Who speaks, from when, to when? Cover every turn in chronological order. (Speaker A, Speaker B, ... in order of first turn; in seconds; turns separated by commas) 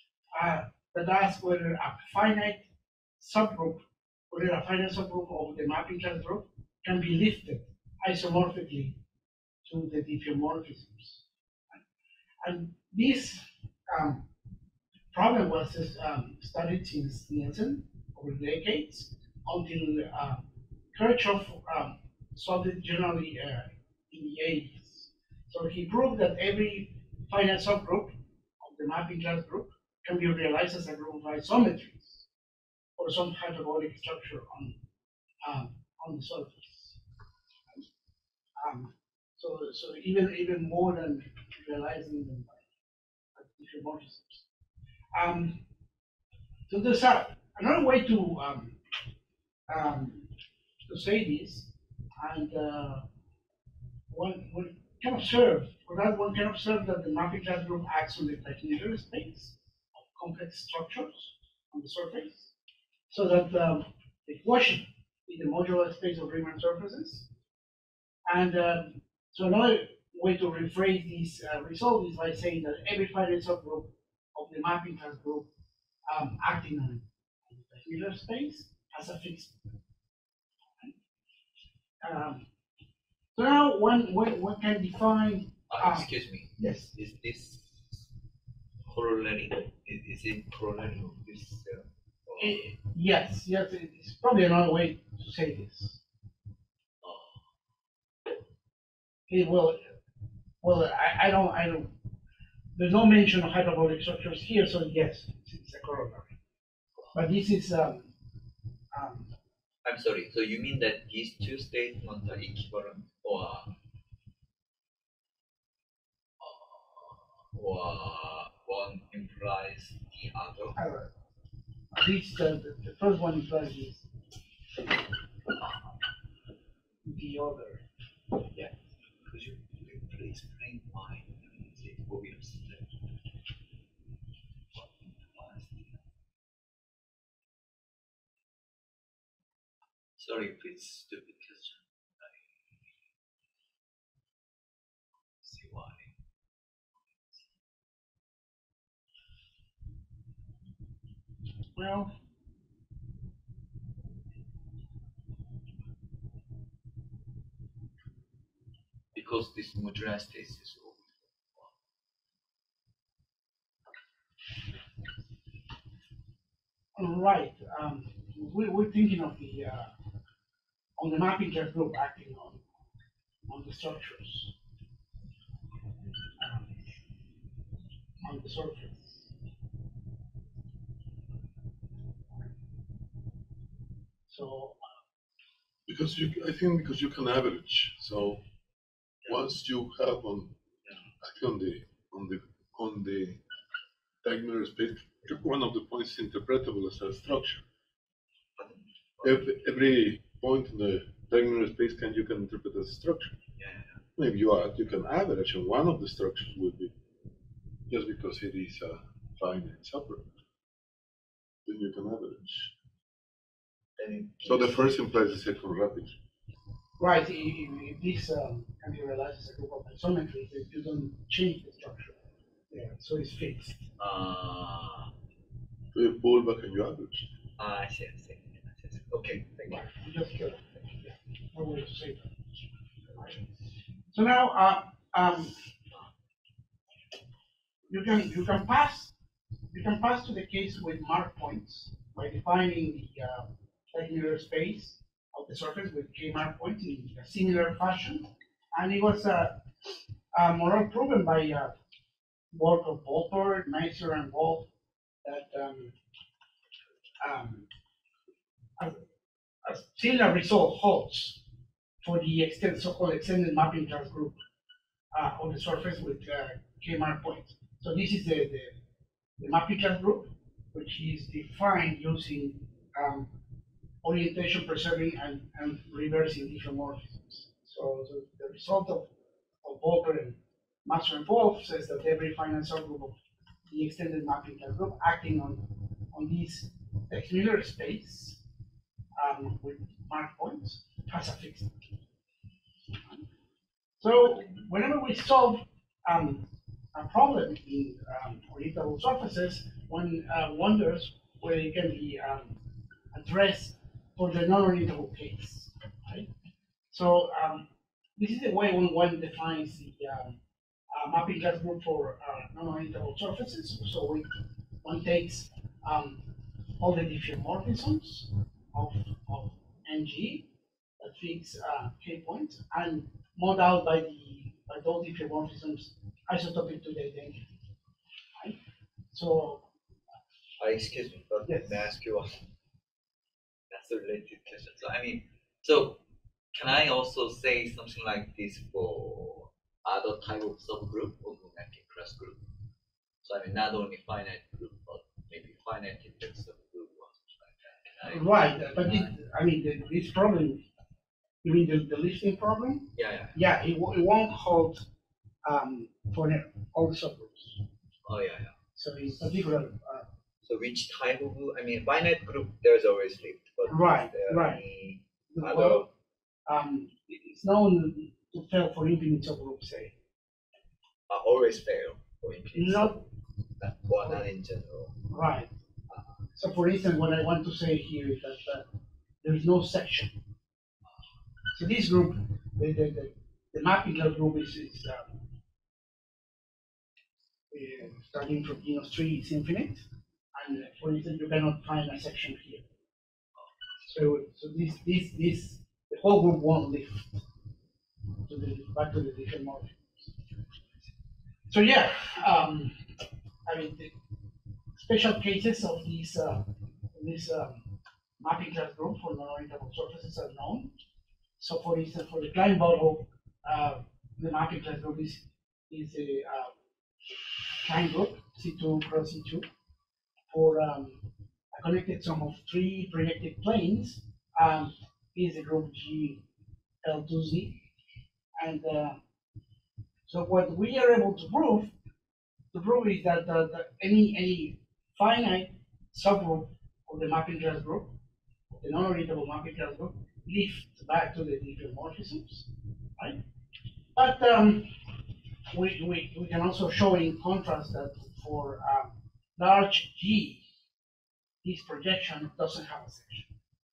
Speaker A: 0.4-9.0, Speaker A: 9.7-11.2, Speaker A: 12.4-14.3, Speaker A: 15.1-20.4, Speaker A: 20.9-32.2, Speaker A: 33.0-34.8, Speaker A: 35.4-37.0, Speaker A: 38.6-42.6, Speaker A: 43.4-44.4, Speaker A: 45.1-45.6, Speaker A: 46.7-48.8, Speaker A: 49.7-50.3, Speaker A: 50.9-51.7, Speaker A: 52.2-53.1, Speaker A: 54.1-62.5, Speaker A: 63.1-67.3, Speaker A: 68.3-75.5, Speaker A: 76.1-79.6, Speaker A: 82.0-82.5, Speaker A: 83.3-86.9, Speaker B: 85.7-88.1, Speaker B: 88.9-92.6, Speaker A: 92.4-96.0, Speaker B: 97.0-97.4, Speaker A: 99.3-99.8, Speaker A: 100.6-101.9, Speaker A: 102.8-106.4, Speaker A: 107.1-108.1, Speaker A: 108.9-109.3, Speaker B: 109.8-113.7, Speaker B: 116.4-120.8, Speaker A: 120.8-121.1, Speaker A: 121.9-124.1, Speaker A: 127.1-127.8, Speaker B: 129.2-133.0, Speaker B: 134.7-136.0, Speaker B: 140.2-142.6, Speaker B: 145.4-146.2, Speaker B: 147.2-147.4, Speaker A: 151.8-152.1, Speaker B: 159.1-161.7, Speaker A: 166.9-169.9, Speaker A: 171.0-172.6, Speaker A: 173.5-174.6, Speaker A: 176.4-176.8, Speaker A: 178.2-179.3, Speaker A: 184.3-184.8, Speaker C: 185.9-188.4, Speaker C: 189.3-190.6, Speaker C: 191.2-193.4, Speaker C: 194.2-197.7, Speaker B: 198.6-199.3, Speaker C: 199.2-203.4, Speaker B: 203.6-204.0, Speaker C: 204.2-206.9, Speaker C: 207.9-210.3, Speaker C: 211.7-212.7, Speaker B: 214.0-215.0, Speaker C: 214.4-216.2, Speaker A: 217.0-222.2, Speaker A: 222.7-223.8, Speaker B: 224.0-225.1, Speaker C: 225.9-227.3, Speaker B: 227.6-229.9, Speaker A: 229.7-232.3, Speaker A: 233.1-233.4, Speaker A: 234.1-235.6, Speaker A: 237.9-239.1, Speaker A: 239.7-249.6, Speaker A: 250.3-251.7, Speaker A: 252.5-254.7, Speaker A: 255.2-255.9, Speaker A: 257.2-257.7, Speaker A: 259.6-261.4, Speaker A: 262.0-264.4, Speaker A: 265.1-268.8, Speaker A: 269.4-273.3, Speaker A: 274.0-279.1, Speaker A: 279.6-283.2, Speaker A: 283.7-288.4, Speaker A: 289.2-291.7, Speaker A: 292.9-293.2, Speaker A: 294.0-302.6, Speaker A: 303.1-306.3, Speaker A: 306.9-310.4, Speaker A: 310.9-320.5, Speaker A: 321.0-327.4, Speaker A: 329.1-329.7, Speaker B: 330.6-332.5, Speaker A: 331.5-331.9, Speaker B: 333.7-336.0, Speaker B: 336.5-342.4, Speaker B: 343.2-349.1, Speaker A: 348.0-350.6, Speaker A: 351.4-354.9, Speaker B: 353.0-353.4, Speaker A: 355.4-357.6, Speaker B: 358.0-358.6, Speaker A: 358.8-360.1, Speaker B: 360.4-365.9, Speaker A: 363.7-364.6, Speaker A: 365.3-365.9, Speaker A: 366.5-369.9, Speaker B: 371.1-373.1, Speaker A: 372.6-373.0, Speaker B: 373.6-375.1, Speaker A: 375.1-375.5, Speaker B: 375.9-376.2, Speaker A: 376.4-378.7, Speaker A: 379.2-380.2, Speaker A: 381.5-385.1, Speaker A: 387.5-392.6, Speaker A: 393.8-397.2, Speaker A: 398.2-400.1, Speaker A: 401.5-402.8, Speaker A: 403.5-404.0, Speaker A: 404.8-407.6, Speaker A: 408.2-410.7, Speaker A: 411.4-416.5, Speaker A: 417.5-419.5, Speaker A: 420.3-426.2, Speaker A: 426.8-427.6, Speaker A: 428.4-429.0, Speaker A: 430.1-431.7, Speaker A: 432.5-438.0, Speaker A: 438.6-443.2, Speaker A: 443.9-444.7, Speaker A: 445.5-450.4, Speaker A: 451.4-453.3